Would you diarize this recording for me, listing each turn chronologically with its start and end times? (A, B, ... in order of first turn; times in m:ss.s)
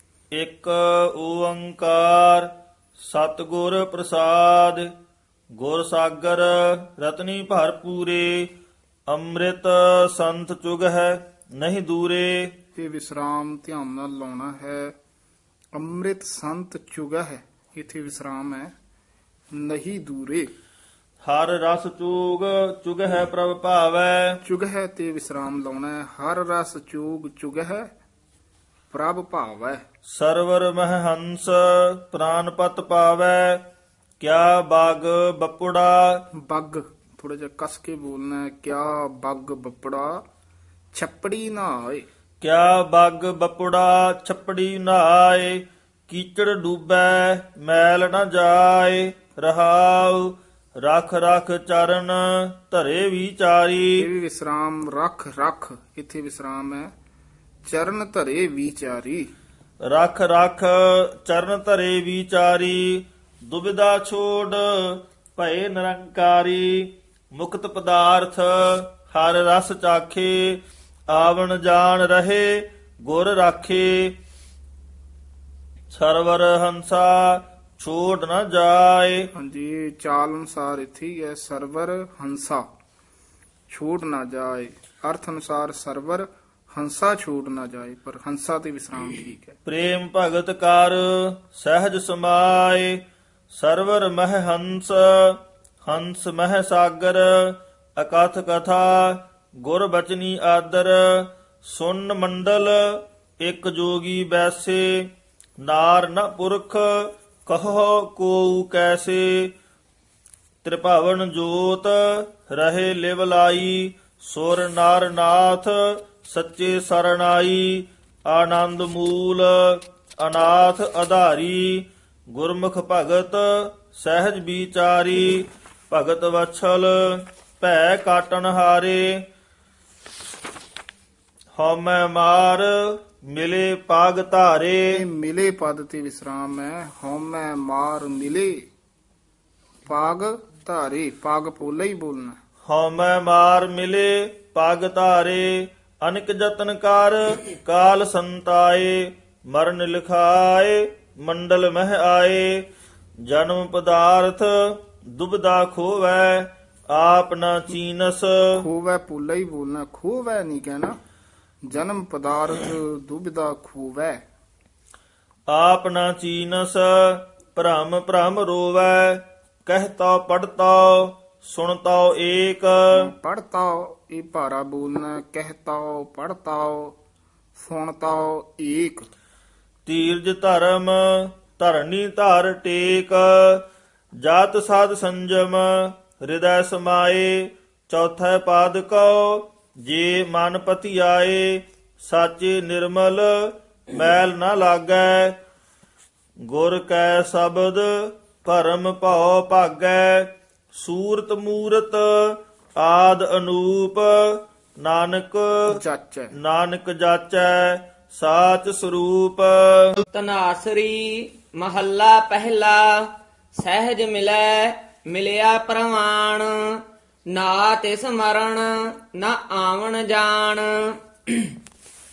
0:00.3-0:02.5 A
0:03.0-0:04.9 A
0:05.6-0:08.5 A
0:09.1-0:12.5 A
0:12.8-0:15.0 B
0:15.7-0:18.7 B
0:19.5-0:20.5 B
0:21.2-0:24.4 A
0:24.4-0:27.9 B
0:28.9-0:29.8 B
0:30.1-0:33.6 A
0:34.2-0:36.2 A
0:36.4-0:40.2 B
0:40.9-0:42.1 B
0:42.4-0:54.1 A
0:54.0-0:56.9 B
0:57.7-0:59.3 B
0:59.8-1:14.2 A
1:15.9-1:19.3 A
1:19.4-1:22.6 B
1:23.7-1:29.6 B
1:29.6-1:49.5 A
1:50.6-2:09.2 A
2:11.6-2:15.0 A
2:14.9-2:18.6 B
2:19.9-2:22.4 B
2:22.6-2:32.7 A
2:33.3-2:38.5 A
2:38.6-2:41.0 B
2:41.7-2:44.2 B
2:45.5-2:53.0 A
2:52.9-2:57.0 B
2:57.6-2:59.1 B
2:59.9-3:03.6 A
3:04.2-3:15.4 A
3:16.5-3:25.8 A
3:25.7-3:26.3 B
3:26.4-3:30.0 A
3:30.1-3:41.6 C